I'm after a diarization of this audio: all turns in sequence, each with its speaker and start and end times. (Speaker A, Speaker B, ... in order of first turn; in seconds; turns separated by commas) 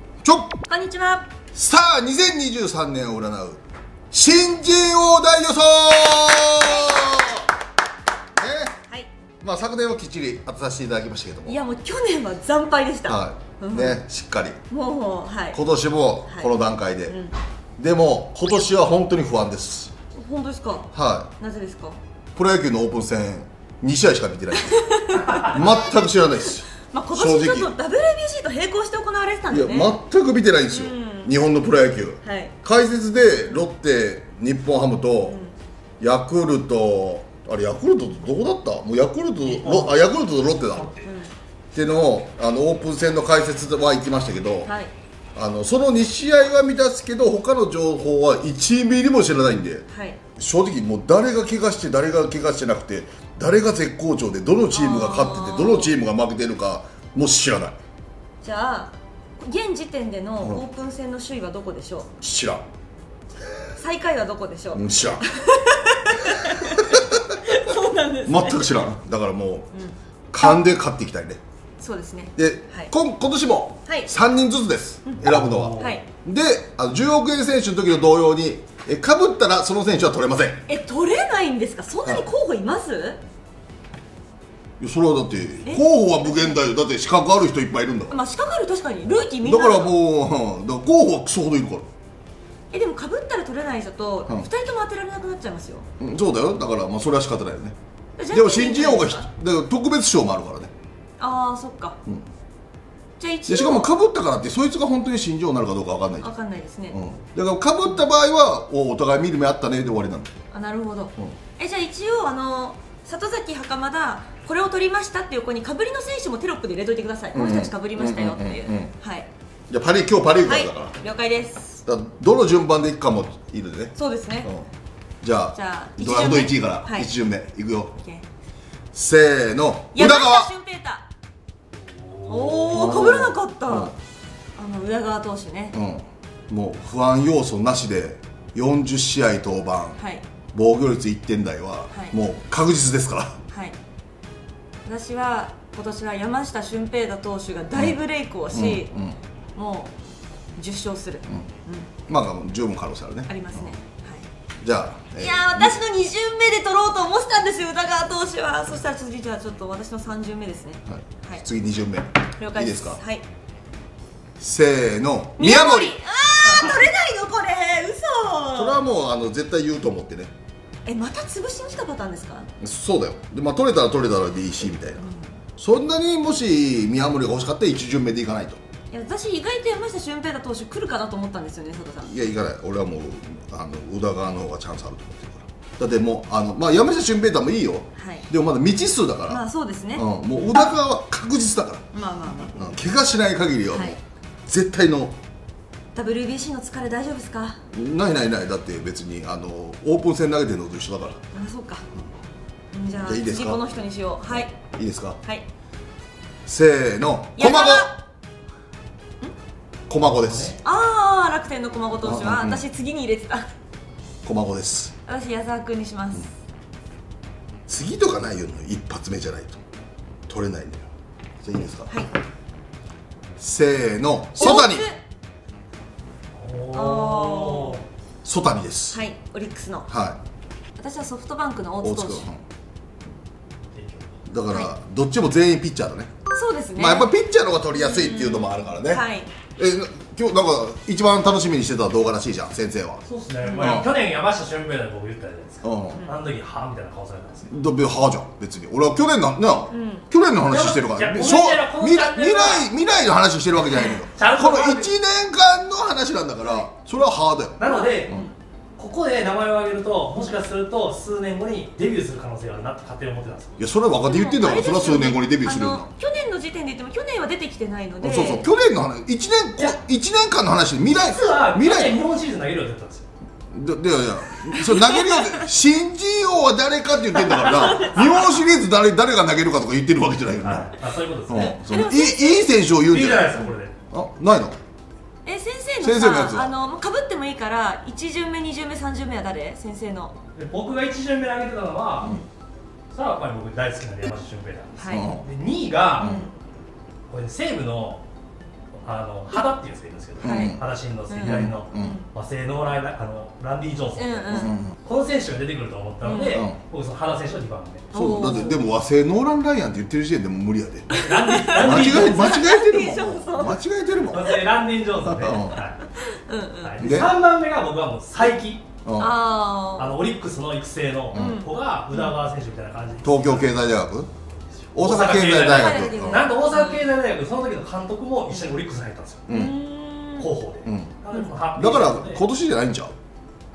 Speaker A: 0.2-0.6, Speaker B: 0.7-1.3, Speaker A: 1.5-3.6, Speaker A: 4.1-7.5, Speaker A: 8.4-8.8, Speaker A: 9.4-11.6, Speaker B: 11.5-14.0, Speaker A: 13.1-14.6, Speaker B: 14.7-15.6, Speaker A: 15.5-17.1, Speaker B: 16.3-16.5, Speaker B: 17.1-17.4, Speaker A: 17.8-19.9, Speaker B: 20.1-22.0, Speaker A: 20.9-21.3, Speaker A: 22.4-27.7, Speaker B: 24.6-25.8, Speaker B: 26.8-29.9, Speaker A: 29.5-35.4, Speaker B: 30.7-31.3, Speaker B: 32.2-32.5, Speaker B: 35.3-35.5, Speaker A: 36.0-40.9, Speaker C: 39.4-40.0, Speaker C: 40.7-41.1, Speaker B: 41.0-41.3, Speaker A: 41.7-44.7, Speaker B: 44.6-44.9, Speaker A: 45.4-49.9, Speaker B: 49.9-50.2, Speaker A: 50.4-57.8, Speaker B: 54.7-56.0, Speaker B: 58.4-62.1, Speaker A: 62.2-62.6, Speaker B: 63.8-68.8, Speaker A: 64.7-65.2, Speaker A: 66.6-67.0, Speaker A: 68.3-69.7, Speaker B: 69.7-70.6, Speaker A: 70.3-71.4, Speaker B: 71.8-72.9, Speaker A: 72.4-80.6, Speaker B: 75.1-76.0, Speaker C: 75.2-76.0, Speaker B: 80.7-83.2, Speaker A: 84.8-88.2, Speaker B: 85.6-86.6, Speaker B: 88.1-89.9, Speaker A: 89.3-91.9, Speaker B: 92.7-95.9, Speaker A: 96.0-97.8, Speaker B: 98.2-99.3, Speaker A: 98.3-100.7, Speaker B: 101.2-102.0, Speaker B: 103.2-103.9, Speaker A: 103.5-106.3, Speaker B: 106.2-107.0, Speaker A: 106.9-110.3, Speaker B: 110.5-119.3, Speaker A: 117.3-118.9, Speaker A: 119.7-121.0, Speaker B: 120.5-121.8, Speaker A: 121.9-124.7, Speaker B: 124.0-124.5, Speaker A: 125.2-127.9, Speaker B: 125.5-127.1, Speaker B: 128.0-128.3, Speaker A: 128.9-130.5, Speaker B: 129.9-131.1, Speaker C: 131.8-132.9, Speaker B: 132.2-133.9, Speaker A: 132.7-133.9, Speaker B: 134.6-135.8, Speaker A: 135.7-140.0, Speaker B: 140.0-140.2, Speaker A: 140.5-143.4, Speaker B: 143.5-143.8, Speaker B: 144.8-148.9, Speaker A: 148.5-149.2, Speaker B: 149.6-149.9, Speaker B: 150.6-151.9, Speaker A: 152.1-153.8, Speaker B: 153.3-154.3, Speaker A: 154.6-155.8, Speaker B: 155.1-161.4, Speaker A: 160.9-163.0, Speaker B: 162.4-163.2, Speaker A: 164.4-166.0, Speaker B: 165.4-168.8, Speaker A: 168.5-170.3, Speaker B: 170.9-172.5, Speaker A: 172.6-175.1, Speaker B: 175.0-175.3, Speaker A: 175.6-178.6, Speaker B: 178.9-182.2, Speaker A: 182.1-189.4, Speaker B: 187.9-188.3, Speaker B: 189.3-190.7, Speaker A: 189.9-191.8, Speaker B: 191.9-192.6, Speaker A: 192.5-194.0, Speaker B: 193.7-194.0, Speaker A: 194.5-195.2, Speaker B: 195.9-197.6, Speaker A: 197.7-201.2, Speaker B: 201.3-201.8, Speaker B: 202.7-204.5, Speaker A: 203.0-203.6, Speaker A: 204.3-205.2, Speaker A: 206.5-207.9, Speaker B: 207.4-207.9, Speaker A: 209.9-210.5, Speaker C: 209.9-210.6, Speaker B: 210.6-213.5, Speaker A: 212.0-212.7, Speaker A: 214.2-214.9, Speaker B: 215.1-216.3, Speaker A: 217.7-219.6, Speaker A: 220.3-220.9, Speaker A: 221.4-221.9, Speaker A: 223.4-224.9, Speaker B: 224.4-225.0, Speaker C: 226.4-227.8, Speaker B: 226.7-227.8, Speaker A: 228.2-229.0, Speaker B: 228.9-229.9, Speaker A: 229.9-230.2, Speaker B: 230.8-232.3, Speaker A: 231.8-232.4, Speaker C: 233.7-234.1, Speaker A: 234.3-236.1, Speaker B: 234.5-234.7, Speaker B: 236.3-237.1, Speaker A: 236.8-239.0, Speaker B: 237.7-239.3, Speaker A: 239.6-243.9, Speaker C: 243.1-247.5, Speaker A: 245.6-246.0, Speaker B: 246.0-246.2, Speaker A: 247.5-258.3, Speaker B: 249.7-250.1, Speaker C: 250.4-252.7, Speaker C: 253.7-254.9, Speaker B: 253.7-254.0, Speaker B: 256.4-256.7, Speaker C: 257.6-258.2, Speaker B: 257.7-258.3, Speaker C: 258.8-263.6, Speaker A: 263.6-265.9, Speaker B: 264.0-268.5, Speaker A: 268.0-272.0, Speaker C: 270.9-273.1, Speaker A: 273.5-280.8, Speaker B: 274.6-275.4, Speaker B: 277.4-278.1, Speaker C: 277.6-278.0, Speaker C: 280.4-281.6, Speaker A: 281.3-284.6, Speaker B: 281.3-282.6, Speaker C: 282.8-283.7, Speaker B: 285.2-290.2, Speaker A: 285.8-286.5, Speaker C: 290.4-292.2, Speaker C: 292.9-296.2, Speaker B: 294.8-295.2, Speaker A: 294.9-295.2, Speaker A: 296.0-296.3, Speaker B: 296.0-296.3, Speaker C: 297.1-298.0, Speaker C: 298.8-307.9, Speaker A: 300.2-300.6, Speaker B: 300.2-300.6, Speaker B: 301.1-302.1, Speaker A: 301.2-302.0, Speaker B: 304.0-304.6, Speaker A: 304.3-304.8, Speaker B: 306.1-306.4, Speaker A: 306.1-306.6, Speaker B: 307.9-308.7, Speaker A: 307.9-310.9, Speaker C: 310.9-312.4, Speaker B: 310.9-313.6, Speaker A: 311.6-314.3, Speaker C: 314.1-315.8, Speaker A: 315.1-315.6, Speaker B: 315.9-317.0, Speaker C: 316.6-318.7, Speaker A: 316.8-317.1, Speaker A: 318.9-319.1, Speaker B: 319.0-320.0, Speaker C: 319.8-323.6, Speaker A: 321.1-321.4, Speaker B: 321.1-322.2, Speaker A: 323.0-324.1, Speaker C: 324.6-329.3, Speaker A: 324.7-326.3, Speaker B: 325.4-326.9, Speaker A: 329.3-329.5, Speaker B: 329.3-330.3, Speaker C: 330.2-332.2, Speaker A: 330.6-330.9, Speaker A: 331.6-332.9